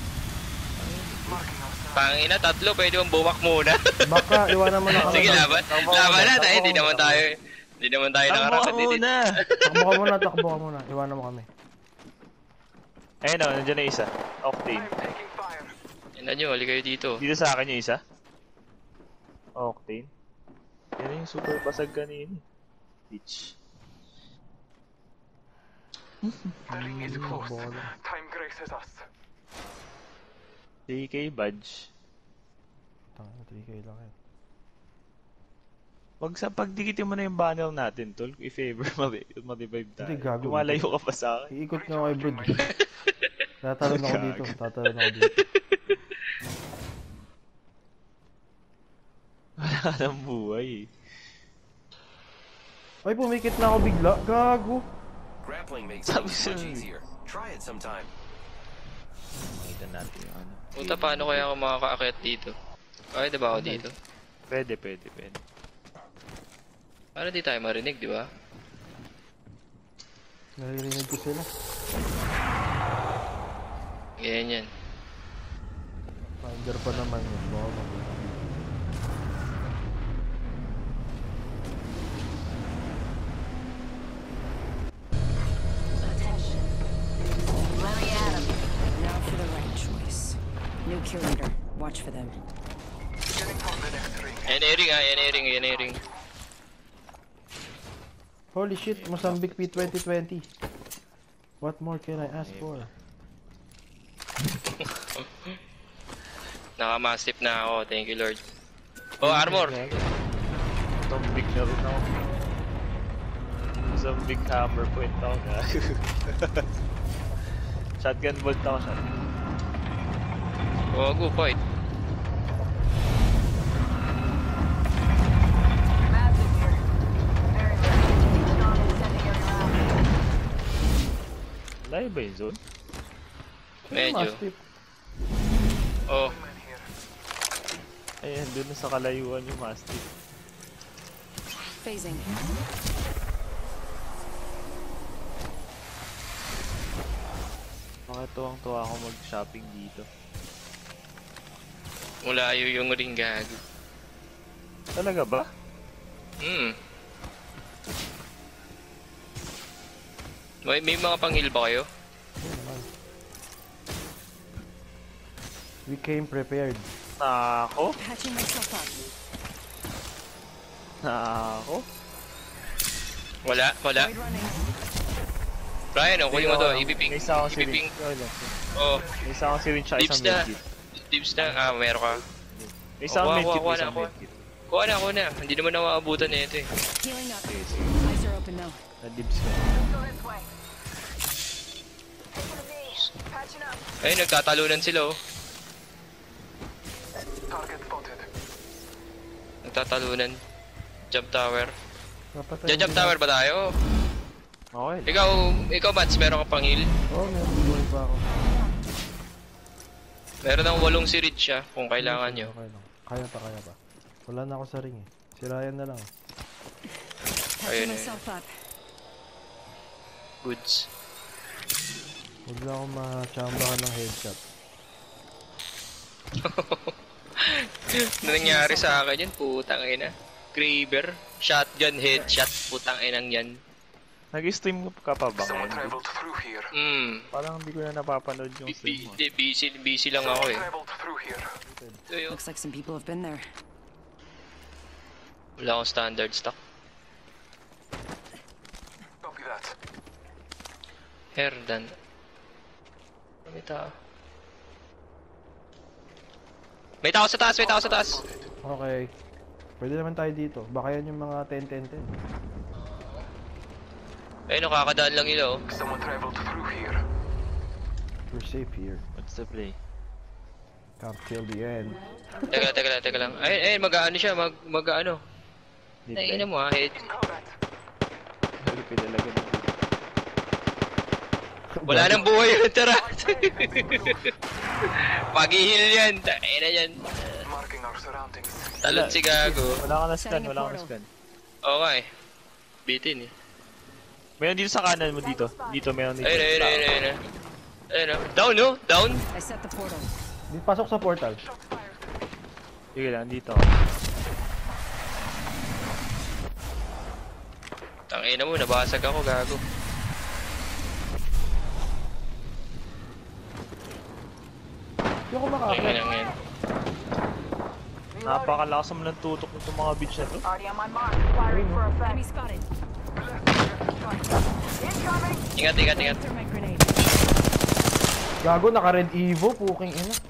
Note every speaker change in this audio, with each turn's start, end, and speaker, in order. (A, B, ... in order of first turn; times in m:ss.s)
0:00.8-0:01.6 A
0:01.9-0:04.3 B
0:04.0-0:05.6 C
0:04.9-0:07.2 A
0:04.9-0:09.8 B
0:08.3-0:09.2 A
0:09.6-0:11.5 C
0:13.2-0:14.9 A
0:14.8-0:15.7 D
0:16.2-0:17.2 B
0:17.2-0:18.0 A
0:19.6-0:20.1 A
0:21.0-0:22.4 A
0:23.1-0:23.6 A
0:26.2-0:26.6 A
0:26.7-0:27.9 C
0:26.7-0:29.0 D
0:27.2-0:27.4 A
0:30.9-0:31.9 A
0:33.2-0:34.2 C
0:36.2-0:41.5 A
0:40.0-0:40.9 C
0:41.5-0:42.6 C
0:41.8-0:42.6 D
0:43.6-0:45.3 C
0:43.8-0:44.6 A
0:45.4-0:46.0 B
0:49.6-0:50.9 A
0:53.0-0:54.8 C
0:55.4-0:58.1 E
0:56.0-0:56.9 A
0:59.4-1:01.5 A
1:00.8-1:02.5 B
1:03.1-1:03.9 B
1:03.5-1:03.9 C
1:04.5-1:05.4 A
1:07.2-1:08.2 B
1:10.6-1:11.5 C
1:14.2-1:14.7 B
1:16.2-1:18.5 C
1:27.8-1:28.4 D
1:29.0-1:32.4 F
1:33.4-1:34.4 D
1:34.5-1:36.0 B
1:38.5-1:40.5 C
1:38.8-1:39.9 A
1:41.6-1:42.9 C
1:42.1-1:42.9 A
1:44.8-1:45.6 B
1:46.8-1:48.4 B
1:49.2-1:49.8 B
1:49.2-1:50.1 A
1:51.0-1:52.1 A
1:53.5-1:56.6 A
1:58.0-1:59.2 A
2:00.9-2:01.6 B
2:06.1-2:06.8 D
2:07.5-2:09.9 D
2:11.8-2:12.6 A
2:13.9-2:14.6 C
2:13.9-2:14.4 B
2:16.1-2:16.4 B
2:16.4-2:16.8 D
2:18.2-2:20.1 A
2:21.7-2:22.4 F
2:28.1-2:30.1 A
2:32.2-2:33.6 B
2:35.0-2:35.5 A
2:36.4-2:36.7 B
2:40.7-2:41.9 B
2:42.4-2:42.9 C
2:45.9-2:46.9 C
2:47.2-2:48.0 A
2:48.0-2:49.0 F
2:51.0-2:51.9 A
2:53.4-2:54.1 B
2:54.0-2:54.7 F
2:55.9-2:57.9 B
2:56.3-2:58.6 A
2:58.8-2:59.1 B
2:59.2-3:00.6 A
3:00.0-3:02.2 B
3:02.6-3:04.4 A
3:03.1-3:04.1 B
3:04.7-3:06.7 B
3:07.0-3:08.8 F
3:07.4-3:08.0 A
3:09.0-3:09.6 A
3:09.7-3:10.5 D
3:12.3-3:13.8 D
3:14.0-3:15.1 B
3:17.5-3:18.3 D
3:19.6-3:20.4 B
3:21.1-3:21.7 B
3:22.3-3:23.2 C
3:22.7-3:23.6 B
3:24.7-3:25.1 A
3:25.1-3:26.8 B
3:27.1-3:28.3 C
3:30.4-3:32.5 B
3:32.0-3:36.1 C
3:37.6-3:38.5 F
3:37.6-3:38.2 B
3:40.4-3:40.9 B
3:42.5-3:44.4 C
3:46.4-3:47.6 B
3:48.2-3:53.5 B
3:48.4-3:49.0 F
3:54.3-3:56.0 A
3:55.7-3:56.7 D
3:56.7-3:57.3 B
3:57.3-3:59.2 A
3:58.7-4:00.7 B
4:00.7-4:01.5 D
4:01.7-4:02.0 C
4:02.1-4:02.4 B
4:02.3-4:03.5 F
4:05.6-4:06.6 B
4:09.2-4:09.7 D
4:11.3-4:11.8 B
4:13.5-4:13.9 B
4:17.0-4:18.2 B
4:18.0-4:18.4 D
4:18.6-4:19.1 C
4:19.8-4:22.1 C
4:22.8-4:23.2 B
4:24.5-4:25.6 B
4:25.7-4:27.0 D
4:28.3-4:29.0 C
4:29.2-4:29.8 A
4:31.0-4:32.6 C
4:32.5-4:35.2 B
4:36.1-4:36.5 A
4:36.1-4:37.1 B
4:37.1-4:37.5 D
4:38.6-4:39.7 A
4:41.7-4:42.2 C
4:41.9-4:44.3 B
4:43.2-4:44.2 D
4:44.9-4:47.5 B
4:47.5-4:48.7 D
4:48.8-4:49.8 B
4:48.9-4:51.1 A
4:50.1-4:50.9 F
4:51.6-4:52.0 B
4:52.8-4:53.3 B
4:54.4-4:56.9 A
4:56.2-4:57.2 B
4:57.9-4:59.2 B
4:59.3-5:00.1 F
5:00.5-5:01.4 C
5:01.6-5:02.0 D
5:03.0-5:03.7 A
5:08.1-5:09.6 B
5:15.3-5:16.0 C
5:15.7-5:16.4 B
5:18.2-5:20.5 A
5:20.5-5:22.2 D
5:21.4-5:21.9 C
5:22.0-5:22.6 F
5:23.4-5:24.2 D
5:24.8-5:25.4 D
5:25.6-5:26.2 B
5:25.9-5:27.0 F
5:28.4-5:30.2 C